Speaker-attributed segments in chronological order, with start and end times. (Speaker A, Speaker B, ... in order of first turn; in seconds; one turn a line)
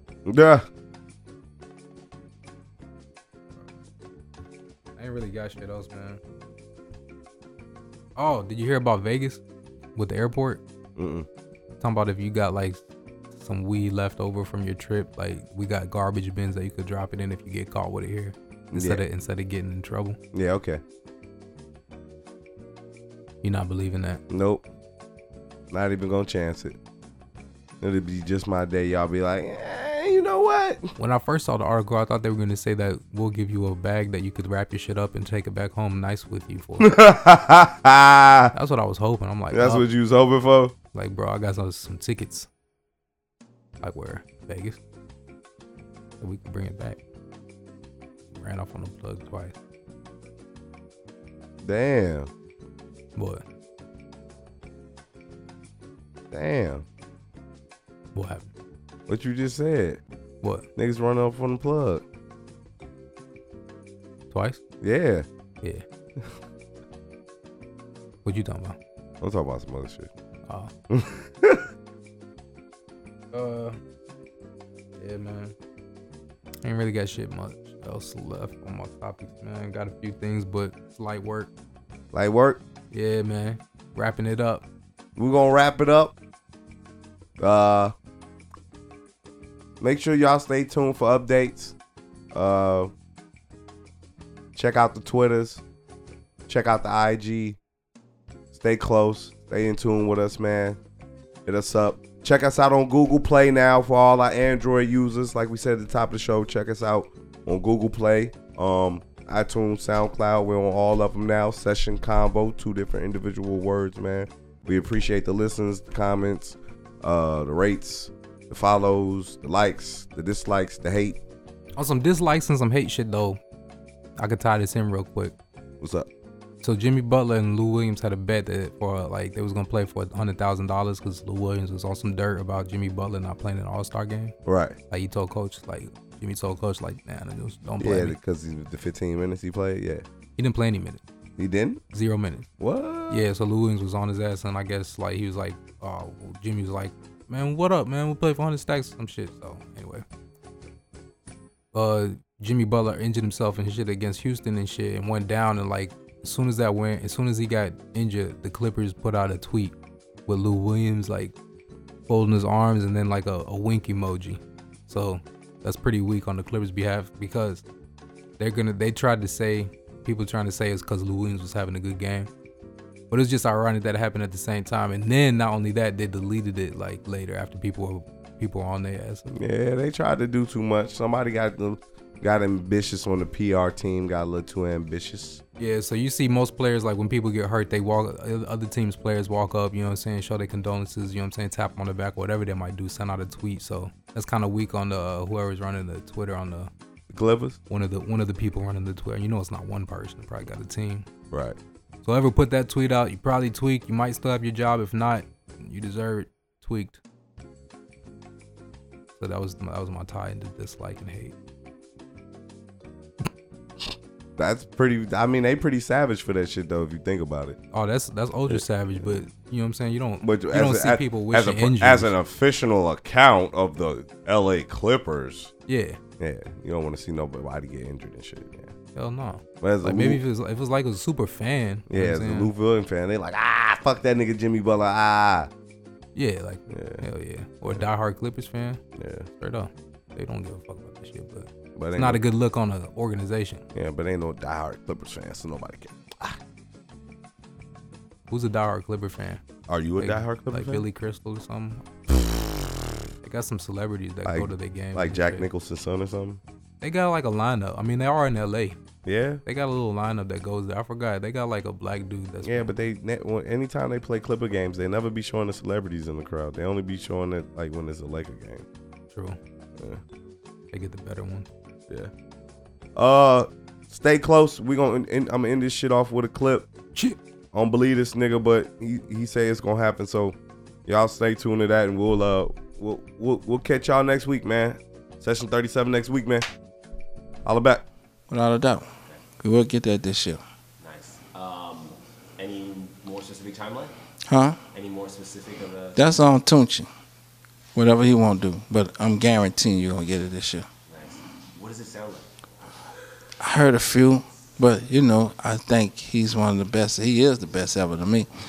Speaker A: 0.3-0.7
Speaker B: 5.0-6.2
Speaker B: 8.2-9.4
Speaker B: 9.9-10.6
Speaker A: 10.9-11.3
Speaker B: 11.8-12.8
Speaker B: 13.3-20.2
Speaker A: 18.7-19.0
Speaker A: 20.3-20.8
Speaker B: 23.4-24.2
Speaker A: 24.3-24.7
Speaker A: 25.7-26.8
Speaker A: 27.8-30.9
Speaker B: 31.0-37.0
Speaker A: 36.8-38.5
Speaker B: 38.5-39.9
Speaker A: 39.5-40.7
Speaker B: 40.9-42.5
Speaker B: 43.8-44.8
Speaker B: 46.2-47.0
Speaker B: 48.3-49.5
Speaker A: 51.6-52.3
Speaker B: 53.2-53.4
Speaker A: 56.3-56.9
Speaker B: 58.1-58.5
Speaker A: 59.1-60.0
Speaker B: 60.4-60.7
Speaker A: 60.8-62.0
Speaker B: 64.3-64.6
Speaker A: 64.8-65.3
Speaker B: 68.2-68.8
Speaker A: 69.2-70.1
Speaker A: 70.9-71.7
Speaker B: 73.3-73.8
Speaker B: 75.0-75.5
Speaker B: 76.6-81.5
Speaker A: 82.1-82.6
Speaker B: 82.9-84.7
Speaker A: 85.2-86.2
Speaker A: 87.4-87.9
Speaker A: 89.8-91.7
Speaker A: 92.3-92.9
Speaker A: 94.5-95.6
Speaker A: 96.5-97.6
Speaker A: 98.5-100.8
Speaker A: 101.5-121.2
Speaker B: 121.8-123.4
Speaker B: 124.2-125.3
Speaker A: 125.8-126.1
Speaker B: 126.6-134.3
Speaker A: 134.4-134.8
Speaker B: 134.9-138.2
Speaker A: 137.8-140.1
Speaker B: 140.4-141.0
Speaker A: 141.4-141.8
Speaker B: 141.9-142.5
Speaker A: 142.6-143.3
Speaker B: 143.1-150.1
Speaker B: 151.7-159.7
Speaker B: 160.3-161.3
Speaker B: 162.1-167.6
Speaker B: 168.4-172.3
Speaker B: 173.1-179.3
Speaker A: 179.3-185.4
Speaker B: 185.6-196.7
Speaker A: 197.1-197.6
Speaker B: 197.7-201.1
Speaker A: 201.3-201.6
Speaker B: 202.0-207.0
Speaker B: 209.2-211.3
Speaker A: 214.4-217.6
Speaker B: 217.7-222.1
Speaker A: 218.5-219.2
Speaker A: 220.2-225.5
Speaker B: 225.7-226.0
Speaker A: 226.2-228.7
Speaker B: 228.9-232.5
Speaker A: 229.6-230.2
Speaker A: 231.9-235.5
Speaker B: 236.2-238.8
Speaker A: 236.7-237.1
Speaker A: 238.9-239.3
Speaker B: 239.4-243.7
Speaker A: 241.8-242.2
Speaker A: 243.7-246.4
Speaker B: 248.3-249.4
Speaker A: 249.7-250.9
Speaker B: 250.0-251.8
Speaker B: 253.2-255.5
Speaker A: 254.2-256.4
Speaker B: 256.8-258.8
Speaker A: 259.1-259.4
Speaker B: 259.4-262.7
Speaker A: 262.4-268.7
Speaker B: 269.1-269.4
Speaker A: 269.8-270.0
Speaker B: 270.7-271.5
Speaker A: 272.9-276.7
Speaker A: 277.5-286.5
Speaker A: 287.4-287.9
Speaker C: 288.3-288.9
Speaker C: 289.4-290.4
Speaker D: 290.8-293.9
Speaker C: 294.3-294.6
Speaker D: 294.7-296.0
Speaker C: 295.9-296.9
Speaker C: 297.7-300.7
Speaker D: 300.9-302.3
Speaker C: 303.4-308.3